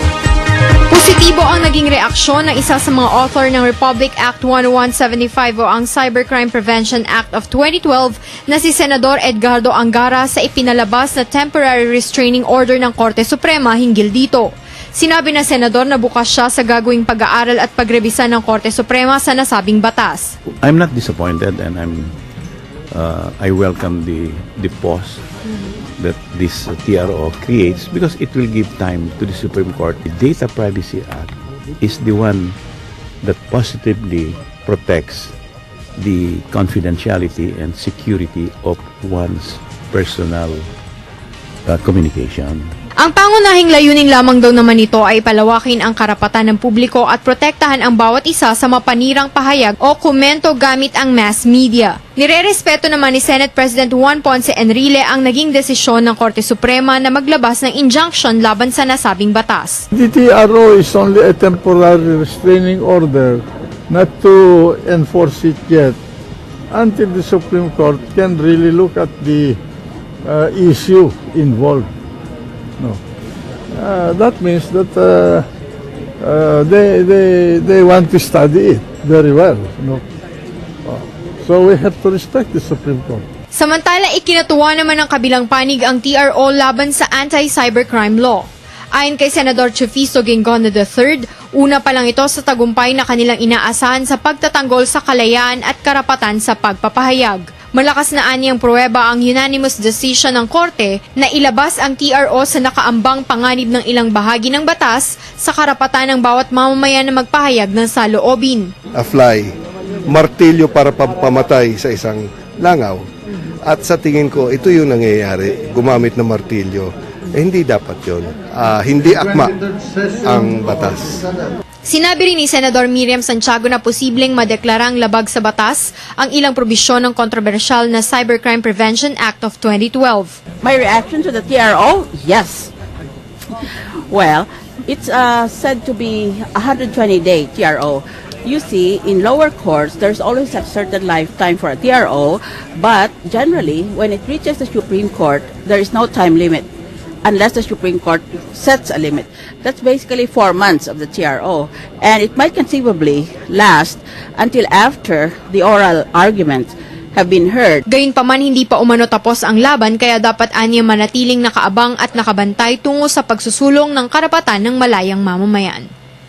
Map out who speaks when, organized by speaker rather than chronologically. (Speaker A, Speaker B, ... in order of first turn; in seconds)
Speaker A: 0.9-20.4, 43.0-59.9, 83.5-108.7, 121.8-130.4, 157.9-165.9
Speaker B: 20.6-22.1, 22.9-25.2, 26.0-32.6, 33.2-35.3, 36.0-40.7, 41.6-42.7
Speaker C: 59.9-66.0, 66.7-69.6, 70.2-71.9, 73.7-75.5, 76.2-80.0, 80.8-83.2
Speaker D: 108.9-109.5, 110.1-113.0, 113.7-121.2
Speaker E: 130.6-132.7, 134.1-146.7, 147.2-157.8